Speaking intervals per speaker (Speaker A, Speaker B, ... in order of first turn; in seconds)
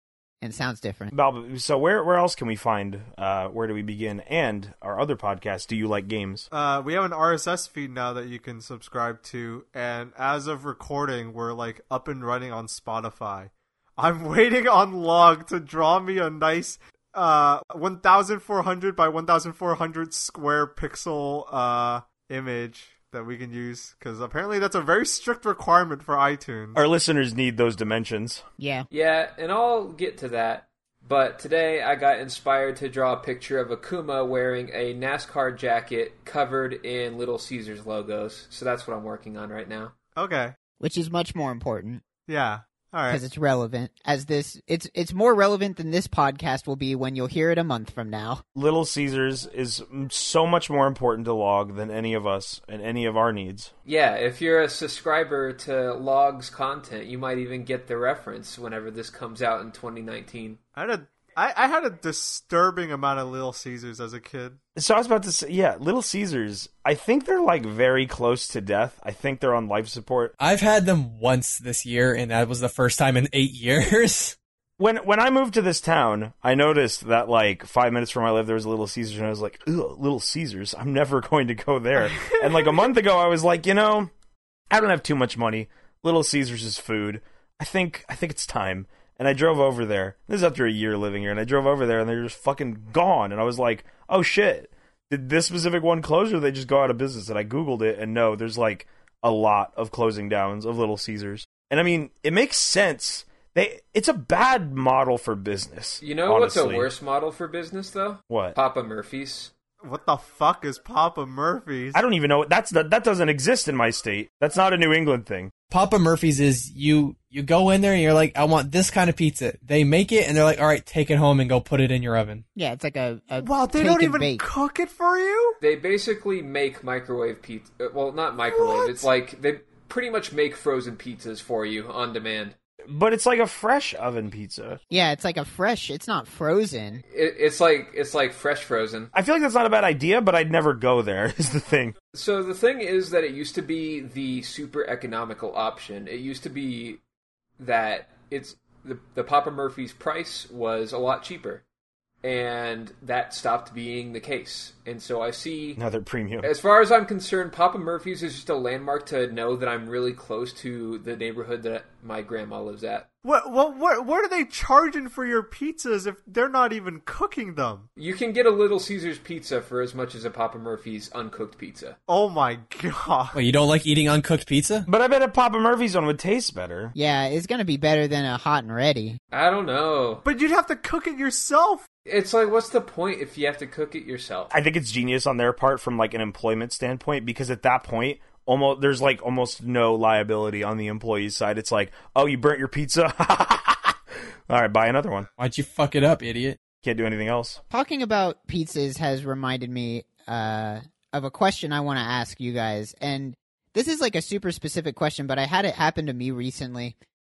Speaker A: 0.4-1.1, 28.6-28.9, 40.8-42.0, 43.1-48.4, 122.5-124.5, 134.9-137.0, 176.9-179.2, 197.7-206.9
Speaker B: 1.1-6.5, 26.7-28.4, 48.5-53.7, 64.8-70.3, 74.8-84.1, 84.7-106.9, 108.3-108.6, 111.9-115.5, 132.9-134.8, 139.1-141.9, 155.8-156.5, 174.9-176.9, 184.5-195.3, 196.8-197.6
Speaker C: 6.5-26.8, 40.1-40.5, 42.3-43.2, 60.8-64.6, 82.1-82.8, 109.8-112.0, 123.4-125.6, 128.5-129.1, 163.2-167.9, 172.1-173.4, 180.2-181.9
Speaker D: 28.9-39.9, 53.9-60.6, 106.0-109.5, 125.6-132.6, 137.1-139.1, 142.1-147.0, 147.6-151.6, 152.2-155.8, 156.4-163.1, 168.0-172.0, 179.3-180.2, 182.1-184.5
Speaker E: 70.4-74.4, 115.7-122.4, 173.3-174.9, 195.4-196.6